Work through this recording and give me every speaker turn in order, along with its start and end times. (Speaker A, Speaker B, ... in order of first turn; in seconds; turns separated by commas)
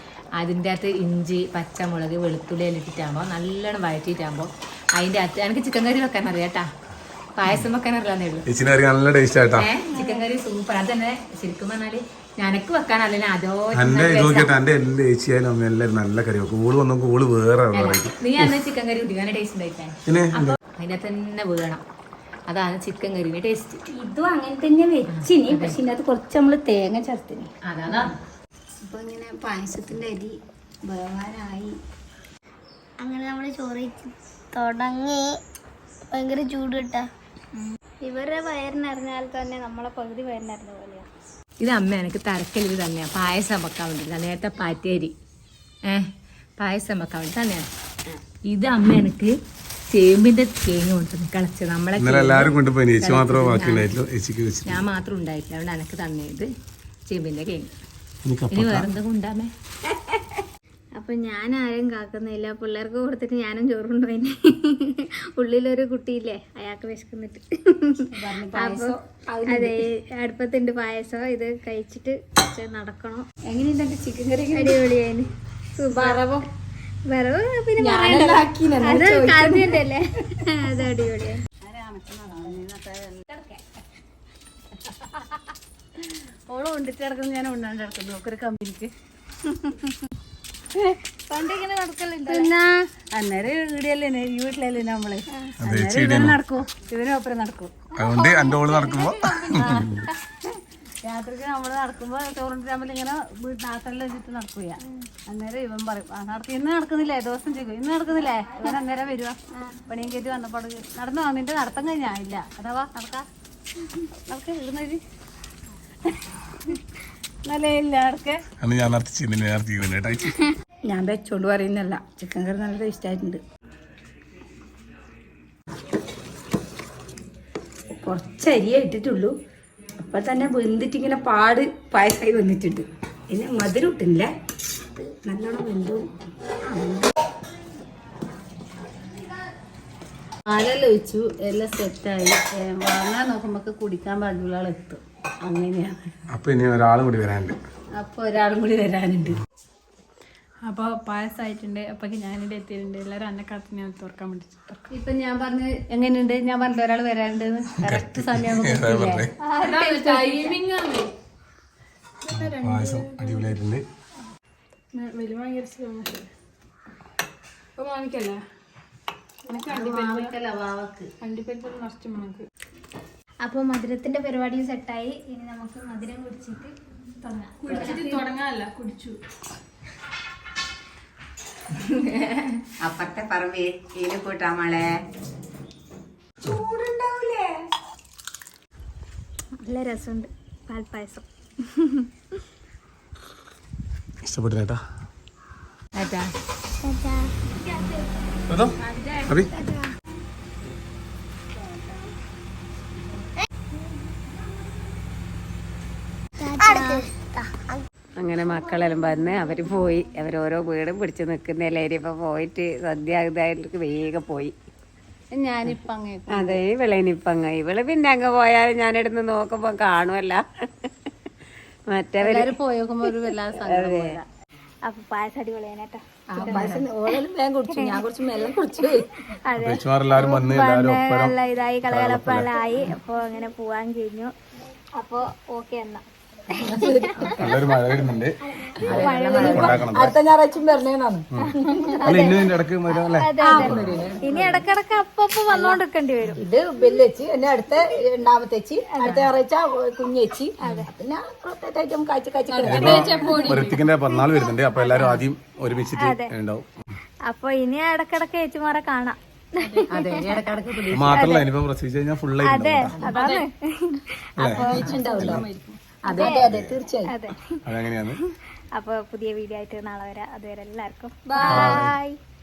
Speaker A: 0.4-6.7, Speaker A: 7.3-8.4, Speaker B: 8.5-9.7, Speaker A: 9.6-14.5, Speaker B: 13.7-18.6, Speaker A: 17.7-21.8, Speaker B: 20.1-20.6, Speaker A: 22.5-23.8, Speaker C: 23.9-28.1, Speaker A: 25.1-25.8, Speaker A: 27.7-28.1, Speaker C: 28.8-30.3, Speaker C: 30.9-31.7, Speaker D: 33.0-35.2, Speaker D: 36.1-37.0, Speaker E: 38.0-41.0, Speaker A: 41.6-45.1, Speaker A: 46.6-47.7, Speaker A: 48.5-49.3, Speaker A: 49.9-54.0, Speaker B: 52.0-54.8, Speaker A: 54.7-56.5, Speaker A: 57.1-57.7, Speaker B: 58.2-58.9, Speaker A: 58.5-59.5, Speaker E: 61.0-68.9, Speaker C: 68.1-69.8, Speaker E: 69.5-73.2, Speaker C: 73.5-74.8, Speaker E: 74.5-76.2, Speaker C: 75.8-76.4, Speaker E: 77.1-81.4, Speaker C: 77.8-79.8, Speaker F: 81.6-83.3, Speaker F: 86.5-88.9, Speaker E: 91.3-92.5, Speaker F: 92.3-97.8, Speaker B: 95.6-96.3, Speaker B: 98.0-100.0, Speaker E: 98.0-100.1, Speaker F: 101.0-109.4, Speaker F: 109.9-113.2, Speaker F: 114.3-115.0, Speaker F: 117.5-118.4, Speaker B: 118.6-120.5, Speaker C: 120.9-123.4, Speaker C: 128.0-129.3, Speaker C: 130.0-134.3, Speaker C: 135.0-136.1, Speaker C: 136.7-137.1, Speaker F: 140.5-146.0, Speaker B: 146.3-147.6, Speaker F: 148.0-149.4, Speaker F: 150.6-159.2, Speaker G: 153.5-154.1, Speaker B: 157.8-159.3, Speaker E: 159.4-160.6, Speaker G: 159.6-161.0, Speaker F: 160.5-161.1, Speaker G: 162.3-163.5, Speaker B: 162.3-163.8, Speaker G: 164.9-166.3, Speaker G: 167.8-168.4, Speaker G: 169.5-170.4, Speaker F: 169.5-171.1, Speaker G: 171.2-172.4, Speaker E: 173.4-178.3, Speaker G: 177.6-179.2, Speaker H: 182.8-184.9, Speaker H: 186.4-187.5, Speaker E: 189.6-192.1, Speaker B: 194.2-194.8, Speaker A: 196.0-196.3, Speaker D: 196.8-197.2, Speaker E: 197.5-198.2, Speaker B: 199.2-199.5, Speaker D: 206.4-207.4, Speaker H: 208.2-214.5, Speaker F: 215.3-216.6, Speaker H: 216.3-220.9, Speaker H: 221.9-222.6, Speaker F: 222.2-224.2, Speaker H: 223.6-224.2, Speaker E: 224.9-226.8, Speaker C: 226.3-229.1, Speaker E: 227.7-228.0, Speaker E: 229.5-234.3, Speaker B: 229.6-231.3, Speaker B: 231.9-232.5, Speaker E: 235.0-236.0, Speaker E: 236.5-237.6, Speaker C: 236.8-237.1, Speaker B: 237.4-238.3, Speaker E: 238.6-239.8, Speaker A: 238.8-239.8, Speaker B: 238.8-240.1, Speaker C: 239.2-242.2, Speaker E: 241.8-242.5, Speaker B: 242.0-243.9, Speaker E: 243.2-246.4, Speaker C: 243.4-243.8, Speaker A: 243.5-244.6, Speaker C: 246.4-253.7, Speaker E: 248.9-249.2, Speaker E: 250.6-250.9, Speaker B: 252.6-256.7, Speaker G: 252.7-253.6, Speaker A: 254.9-255.2, Speaker E: 256.0-256.3, Speaker E: 257.3-260.3, Speaker A: 259.9-261.3, Speaker B: 260.9-263.1, Speaker E: 262.4-264.1, Speaker A: 262.9-263.2, Speaker B: 264.4-265.4, Speaker C: 264.4-265.4, Speaker G: 264.7-265.8, Speaker A: 264.8-265.0, Speaker C: 266.0-267.1, Speaker A: 266.1-266.3, Speaker E: 266.1-266.5, Speaker E: 267.1-267.6, Speaker B: 267.6-268.2, Speaker E: 268.8-272.1, Speaker C: 271.3-271.9, Speaker B: 271.5-271.9